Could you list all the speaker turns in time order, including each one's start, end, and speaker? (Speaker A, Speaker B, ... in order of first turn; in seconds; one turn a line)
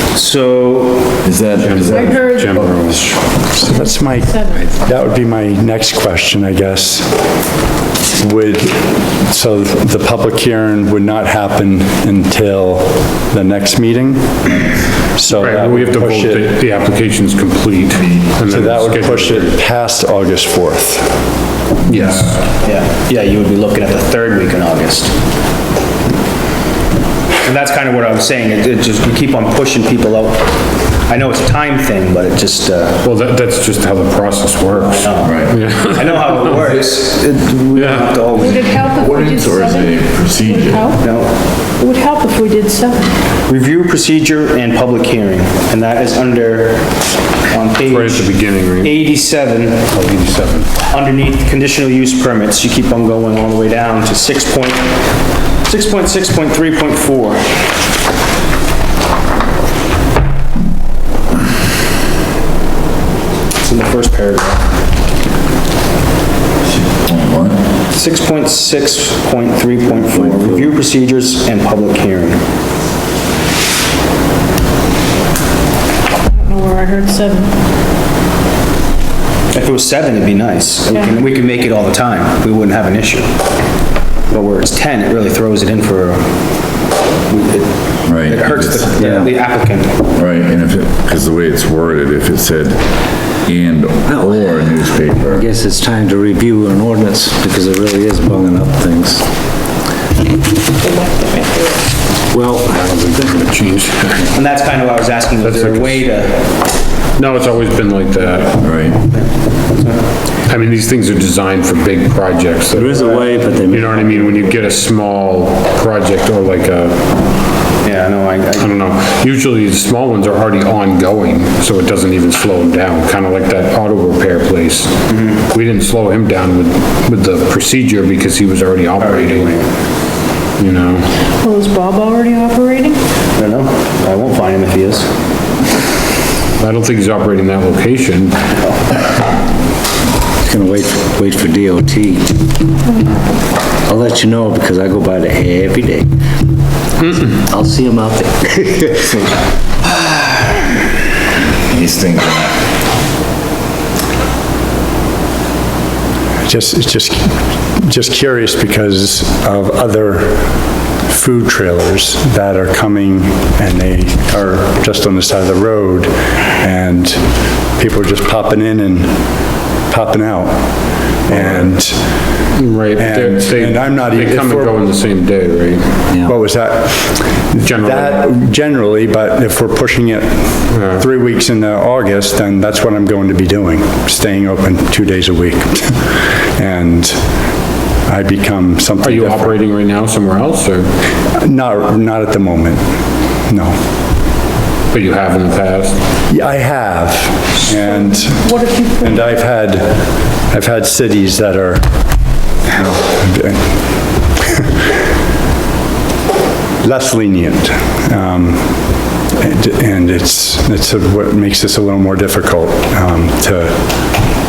Speaker A: 0.1-1.2
Speaker B: 1.2-3.1
Speaker C: 1.6-3.2
Speaker D: 1.9-2.7
Speaker D: 3.5-4.8
Speaker E: 3.5-7.2
Speaker E: 8.2-16.5
Speaker C: 15.3-19.6
Speaker E: 18.5-21.2
Speaker C: 21.9-22.4
Speaker A: 22.5-25.1
Speaker A: 27.4-33.0
Speaker C: 33.0-36.6
Speaker A: 34.8-38.8
Speaker B: 35.2-35.6
Speaker C: 37.8-38.3
Speaker D: 38.3-41.0
Speaker B: 38.8-41.0
Speaker A: 41.0-41.3
Speaker D: 41.6-43.1
Speaker A: 43.5-46.9
Speaker A: 47.5-49.9
Speaker C: 47.9-49.0
Speaker C: 49.9-50.7
Speaker A: 50.9-55.0
Speaker A: 55.6-57.5
Speaker A: 63.6-64.7
Speaker B: 66.7-67.7
Speaker A: 67.9-72.4
Speaker F: 70.2-70.6
Speaker D: 76.3-77.5
Speaker A: 79.5-83.3
Speaker D: 80.9-81.2
Speaker A: 84.3-86.3
Speaker A: 87.3-90.1
Speaker B: 88.1-89.0
Speaker F: 89.0-89.3
Speaker B: 90.2-95.5
Speaker F: 94.1-94.7
Speaker F: 95.2-99.2
Speaker D: 100.8-101.8
Speaker F: 102.3-103.4
Speaker C: 102.4-104.3
Speaker A: 104.3-106.5
Speaker C: 105.4-106.1
Speaker C: 107.2-108.6
Speaker B: 108.6-109.0
Speaker A: 109.1-110.0
Speaker C: 110.5-117.0
Speaker F: 112.7-114.4
Speaker A: 117.8-118.7
Speaker C: 118.6-129.6
Speaker A: 125.1-125.5
Speaker A: 129.0-129.7
Speaker C: 130.6-131.1
Speaker D: 131.4-133.0
Speaker A: 133.4-135.1
Speaker C: 136.6-138.4
Speaker A: 138.6-139.0
Speaker F: 140.4-142.3
Speaker D: 142.9-143.2
Speaker F: 143.8-146.1
Speaker C: 147.0-147.4
Speaker F: 147.3-149.1
Speaker B: 151.7-152.6
Speaker E: 156.5-172.3
Speaker C: 171.3-171.7
Speaker C: 172.5-176.1
Speaker E: 173.0-174.8
Speaker F: 176.1-176.4
Speaker E: 176.2-187.3
Speaker C: 177.6-178.3
Speaker C: 180.7-181.0
Speaker E: 188.1-189.6
Speaker C: 189.0-190.9
Speaker E: 191.3-192.9
Speaker E: 193.5-193.8
Speaker C: 194.9-196.0
Speaker E: 196.3-202.1
Speaker D: 197.7-199.3
Speaker E: 202.6-204.7
Speaker E: 206.8-214.0